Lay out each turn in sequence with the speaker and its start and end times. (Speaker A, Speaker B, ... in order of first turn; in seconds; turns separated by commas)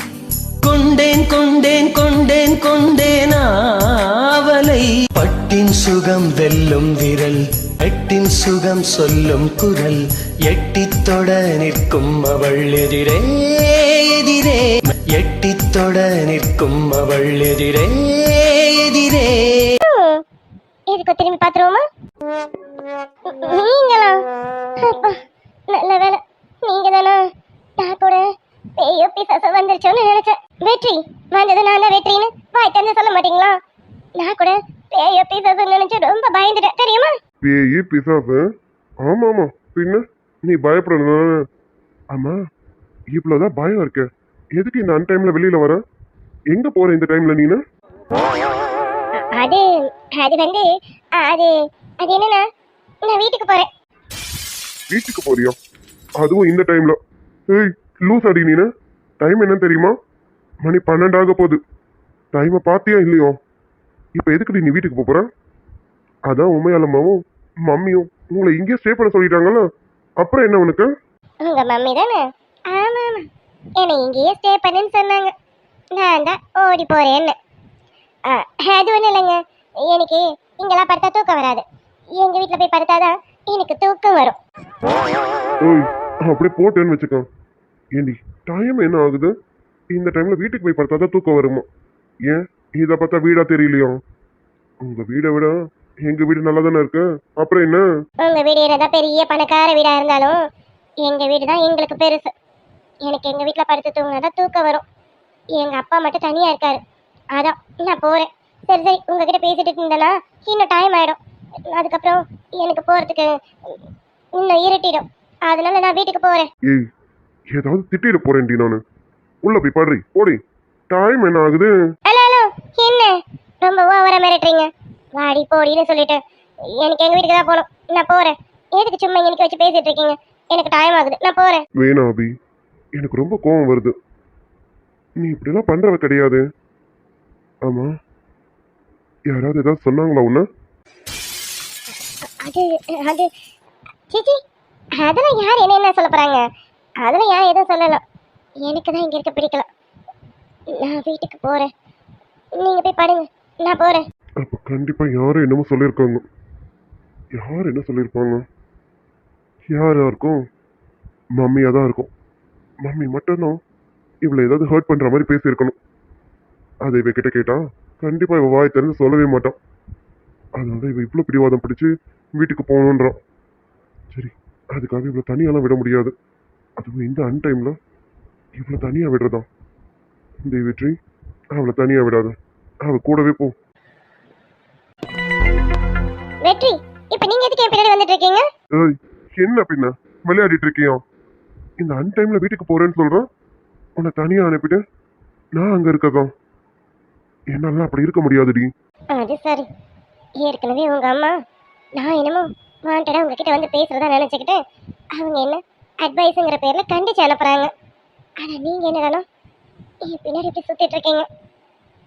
Speaker A: 0.6-19.8, Speaker B: 19.8-20.2, Speaker B: 20.9-21.8, Speaker B: 23.3-24.2, Speaker B: 24.8-27.2, Speaker B: 27.8-28.2, Speaker B: 28.8-33.5, Speaker B: 34.2-37.1, Speaker C: 37.4-38.4, Speaker C: 39.0-41.4, Speaker C: 43.1-45.8, Speaker C: 46.5-47.6, Speaker B: 49.3-52.4, Speaker B: 53.0-53.7, Speaker C: 54.9-55.5, Speaker C: 56.2-57.0, Speaker C: 57.5-58.7, Speaker C: 59.2-59.9, Speaker C: 60.6-61.6, Speaker C: 62.3-63.3, Speaker C: 64.2-65.2, Speaker C: 66.3-69.6, Speaker C: 70.2-70.9, Speaker B: 71.4-73.3, Speaker B: 73.8-75.3, Speaker B: 75.9-77.3, Speaker B: 78.3-81.6, Speaker B: 82.2-84.4, Speaker C: 85.6-87.2, Speaker C: 88.0-89.3, Speaker C: 89.9-91.7, Speaker C: 92.2-94.0, Speaker C: 94.8-97.8, Speaker B: 98.2-100.4, Speaker B: 101.0-102.3, Speaker B: 103.0-104.8, Speaker B: 105.5-106.8, Speaker B: 107.3-111.2, Speaker B: 111.7-113.8, Speaker B: 114.4-116.5, Speaker C: 117.5-118.8, Speaker C: 119.4-120.4, Speaker C: 120.9-121.7, Speaker B: 122.1-126.2, Speaker B: 126.8-131.6, Speaker C: 131.8-132.3, Speaker C: 132.9-133.9, Speaker C: 135.2-136.4, Speaker C: 137.7-137.9, Speaker C: 139.3-140.4, Speaker B: 142.4-143.3, Speaker B: 144.1-144.4, Speaker B: 145.0-146.4, Speaker B: 147.0-148.0, Speaker B: 148.6-149.7, Speaker B: 150.7-151.7, Speaker B: 152.6-154.0, Speaker C: 154.4-156.2, Speaker C: 157.3-158.4, Speaker C: 159.7-160.4, Speaker C: 161.4-162.1, Speaker C: 162.8-163.6, Speaker C: 164.2-165.8, Speaker C: 166.8-169.6, Speaker C: 170.6-173.2, Speaker C: 174.1-176.1, Speaker C: 176.8-177.7, Speaker C: 178.6-179.4, Speaker C: 180.4-180.9, Speaker C: 181.6-183.5, Speaker B: 186.4-188.4, Speaker C: 188.8-191.0, Speaker C: 191.8-193.2, Speaker C: 194.0-194.8, Speaker C: 195.6-196.3, Speaker C: 197.5-198.7, Speaker B: 199.1-199.7, Speaker B: 200.4-201.3, Speaker B: 202.0-204.6, Speaker B: 205.2-207.7, Speaker B: 208.4-209.2, Speaker B: 210.1-211.3